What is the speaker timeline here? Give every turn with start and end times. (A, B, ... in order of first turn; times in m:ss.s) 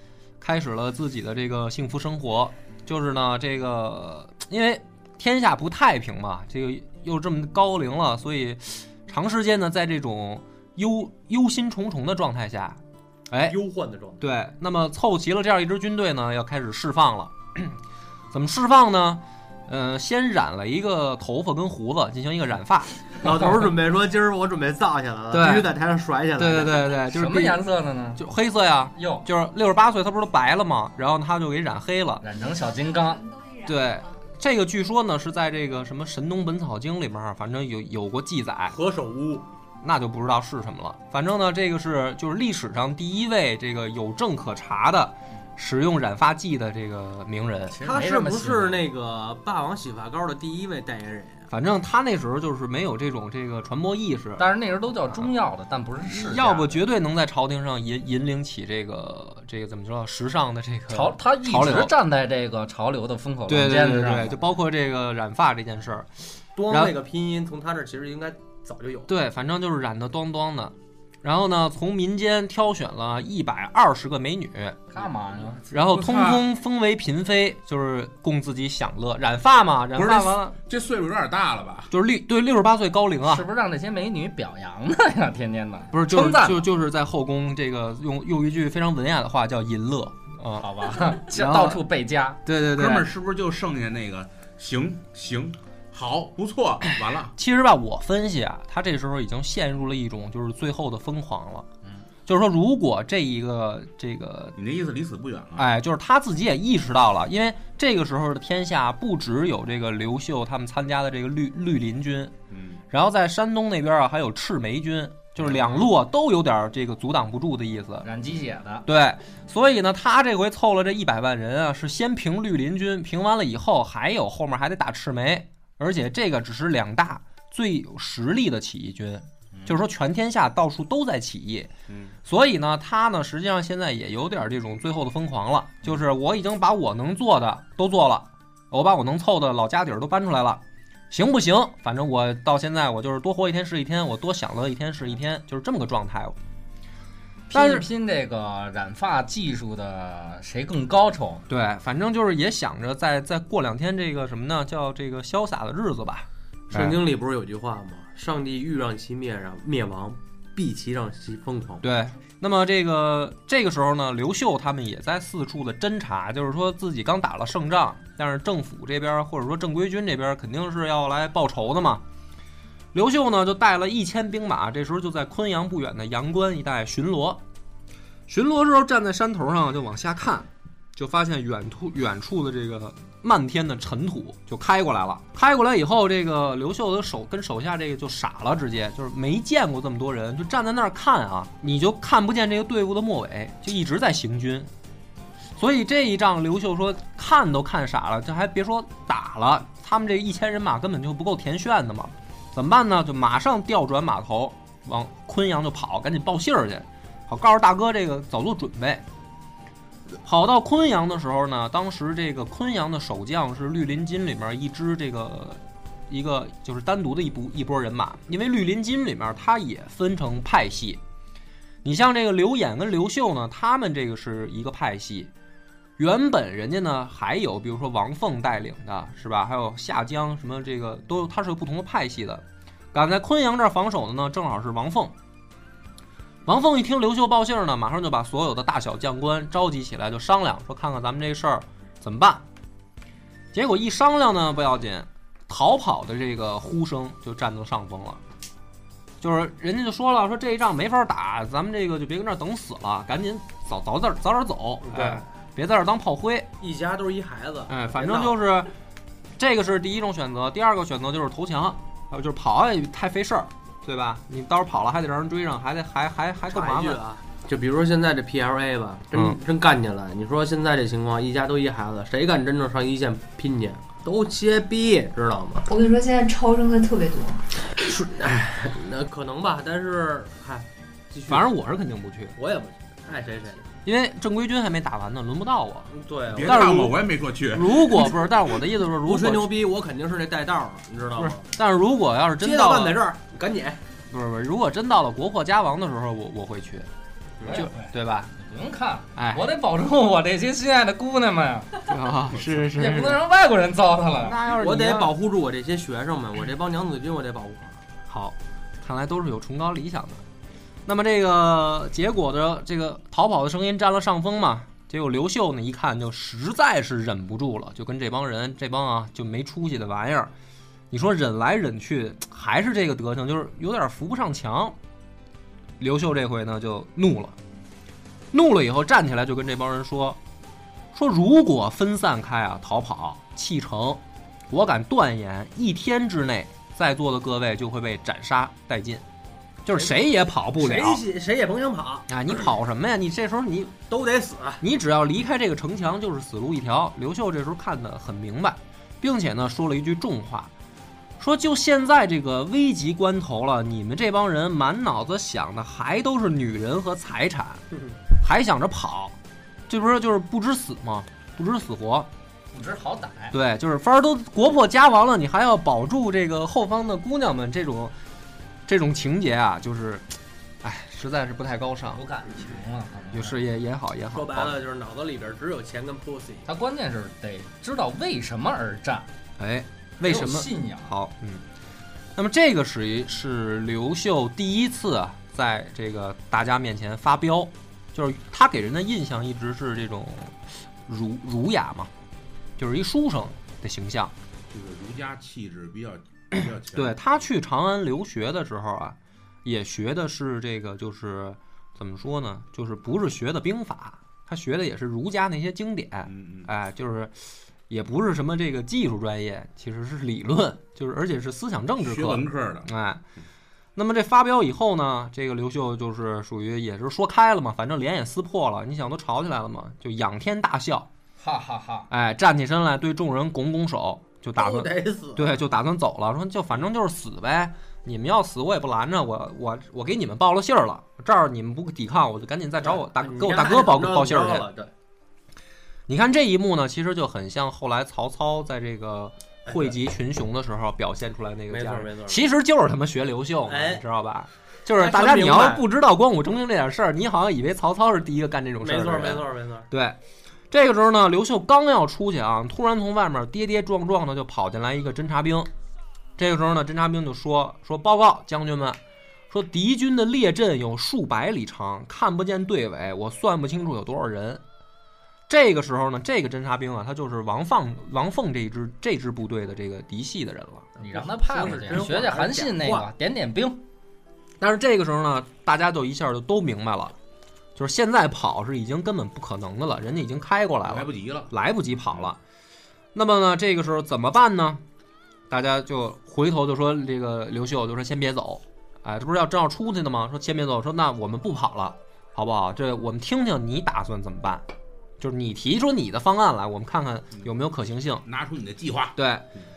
0:00.4-0:13.6 A
0:13.4-0:14.2 B
0:14.2-0:17.8 A
0:18.3-0:23.3 A
0:23.2-0:26.8 B
0:25.3-0:25.7 A
0:26.4-0:27.6 A
0:27.1-0:28.2 C
0:28.2-0:32.2 A
0:28.9-0:29.2 C
0:32.2-0:33.2 C
0:32.4-0:34.2 D
0:33.6-0:38.8 A
0:38.7-0:39.4 B
0:39.8-0:47.8 A
0:47.7-0:48.9 C
0:47.8-0:51.5 B
0:51.5-0:54.5 A
0:54.4-0:56.8 C
0:56.1-1:01.9 A
1:00.9-1:04.4 C
1:03.5-1:06.9 A
1:06.6-1:09.1 B
1:09.1-1:14.8 A
1:14.9-1:15.7 C
1:15.7-1:20.6 A
1:15.7-1:16.5 E
1:19.9-1:21.9 E
1:21.9-1:23.4 A
1:23.2-1:26.7 C
1:25.9-1:30.7 A
1:30.6-1:32.4 C
1:31.3-1:31.8 A
1:32.4-1:33.1 A
1:32.7-1:37.3 E
1:37.3-1:41.7 A
1:42.2-1:44.6 A
1:44.5-1:45.7 E
1:45.6-1:52.3 A
1:52.5-1:52.8 E
1:52.9-1:58.1 A
1:58.0-1:58.8 C
1:58.8-2:11.7 A
2:11.9-2:12.2 E
2:12.2-2:26.4 A
2:27.5-2:31.4 C
2:27.5-2:27.8 A
2:31.5-2:37.0 A
2:36.7-2:41.8 B
2:41.8-2:52.0 A
2:52.9-2:57.4 A
2:58.3-3:14.7 A
3:15.6-3:29.0 A
3:30.2-3:41.0 A
3:41.8-3:45.3 A
3:46.0-3:55.1 A
3:56.4-4:02.4 A
4:03.5-4:08.2 A
4:09.2-4:16.5 A
4:14.8-4:15.3 B
4:16.6-4:18.4 B
4:17.7-4:18.7 A
4:19.4-4:27.0 A
4:26.5-4:35.7 B
4:29.1-4:29.4 A
4:35.7-4:37.4 D
4:37.7-4:41.5 B
4:41.3-4:42.4 A
4:42.4-4:43.7 B
4:43.8-4:45.9 A
4:45.9-4:46.7 B
4:46.3-4:48.0 E
4:46.4-4:47.0 A
4:47.5-4:49.5 A
4:49.0-4:51.5 B
4:51.2-4:53.0 A
4:52.4-4:53.8 B
4:54.1-4:56.9 A
4:57.4-4:57.7 B
4:57.4-5:01.9 C
4:57.5-4:58.3 A
4:59.2-4:59.4 A
5:01.9-5:03.2 A
5:02.7-5:04.4 C
5:04.2-5:05.1 A
5:04.4-5:07.8 B
5:08.1-5:10.2 A
5:10.8-5:20.3 A
5:20.9-5:24.8 A
5:25.8-5:27.4 A
5:28.3-5:30.2 A
5:30.9-5:39.0 A
5:39.6-5:41.0 A
5:39.7-5:40.0 B
5:40.6-5:42.5 B
5:42.1-5:43.7 A
5:43.9-5:44.6 B
5:44.6-5:50.5 A
5:51.2-5:57.6 A
5:58.2-5:59.2 A
5:59.7-6:02.1 A
6:02.5-6:03.3 C
6:03.3-6:07.9 A
6:08.7-6:10.1 A
6:10.6-6:12.0 A
6:11.9-6:13.4 C
6:13.1-6:14.5 A
6:14.1-6:16.5 B
6:16.5-6:19.1 C
6:19.4-6:21.4 A
6:20.0-6:20.9 C
6:22.2-6:31.9 A
6:32.6-6:34.1 A
6:34.5-6:37.1 E
6:36.3-6:47.1 A
6:46.0-6:46.5 E
6:47.7-6:53.0 A
6:51.8-6:52.7 E
6:53.8-7:00.9 A
7:01.2-7:01.9 C
7:01.9-7:14.5 A
7:04.4-7:05.4 B
7:12.6-7:14.7 B
7:15.9-7:30.0 A
7:19.4-7:19.7 B
7:21.5-7:22.2 B
7:23.4-7:23.8 B
7:24.8-7:25.6 B
7:28.6-7:29.7 B
7:30.5-7:35.5 A
7:36.2-7:38.8 A
7:39.3-7:44.4 A
7:45.3-7:50.7 A
7:50.8-7:53.6 C
7:50.8-7:52.9 B
7:54.4-7:57.0 A
7:57.6-8:02.2 A
8:00.6-8:01.3 E
8:02.9-8:04.6 A
8:05.3-8:14.4 A
8:15.0-8:18.0 A
8:18.0-8:19.0 E
8:19.0-8:19.3 A